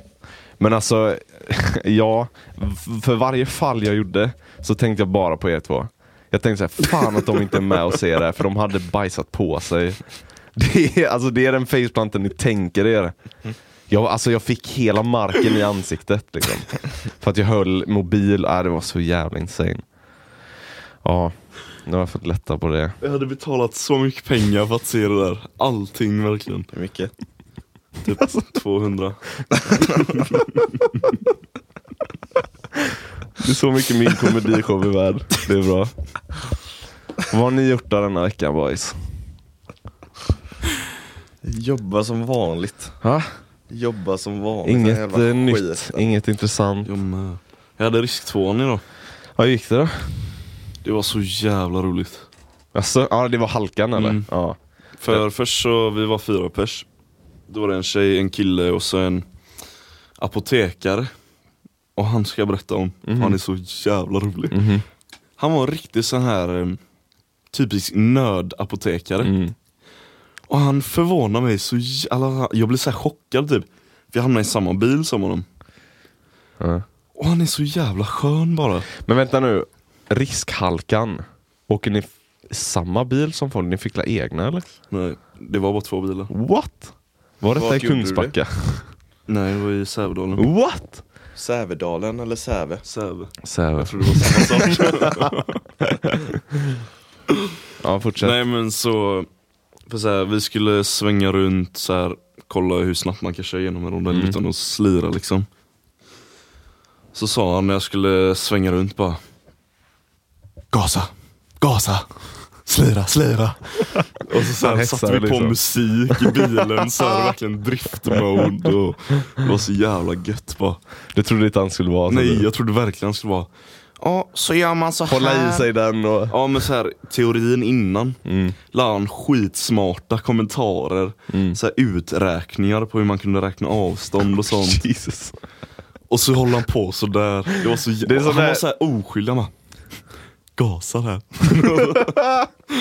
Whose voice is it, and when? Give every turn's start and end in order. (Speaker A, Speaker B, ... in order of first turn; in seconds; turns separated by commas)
Speaker A: 0.6-10.0, Speaker A: 10.5-13.2, Speaker A: 13.9-19.8, Speaker A: 21.0-22.9, Speaker B: 23.0-26.7, Speaker C: 26.7-27.1, Speaker B: 28.0-29.2, Speaker A: 28.1-28.4, Speaker A: 33.4-35.9, Speaker A: 37.3-39.0, Speaker C: 41.4-43.0, Speaker A: 43.0-43.3, Speaker C: 43.7-46.1, Speaker A: 44.6-46.9, Speaker B: 46.9-48.8, Speaker A: 49.4-50.2, Speaker B: 50.8-52.2, Speaker A: 52.7-54.6, Speaker B: 54.0-54.3, Speaker B: 55.0-56.9, Speaker B: 57.5-59.2, Speaker B: 60.2-61.1, Speaker B: 62.0-64.6, Speaker A: 63.0-63.4, Speaker A: 64.5-64.8, Speaker B: 65.4-66.8, Speaker B: 67.5-69.3, Speaker A: 69.2-69.5, Speaker B: 70.5-75.4, Speaker A: 76.6-76.8, Speaker B: 77.2-78.9, Speaker A: 79.0-84.6, Speaker B: 84.9-86.3, Speaker A: 86.3-88.9, Speaker C: 87.5-88.4, Speaker B: 89.3-90.5, Speaker A: 90.4-91.0, Speaker C: 91.3-92.8, Speaker B: 92.8-95.4, Speaker A: 93.4-95.3, Speaker A: 95.8-96.4, Speaker A: 97.8-98.4, Speaker B: 98.2-99.3, Speaker B: 99.9-105.5, Speaker A: 104.1-104.4, Speaker B: 107.1-109.2, Speaker B: 110.7-112.1, Speaker B: 112.6-120.8, Speaker A: 114.6-115.6, Speaker A: 116.1-117.3, Speaker A: 121.1-122.5, Speaker B: 122.1-123.5, Speaker B: 124.0-125.7, Speaker A: 125.1-126.4, Speaker B: 126.3-128.2, Speaker A: 128.2-128.6, Speaker B: 128.7-134.8, Speaker A: 131.3-131.6, Speaker A: 134.5-135.3, Speaker B: 136.1-139.5, Speaker A: 138.0-138.6, Speaker B: 140.6-142.2, Speaker A: 141.6-142.5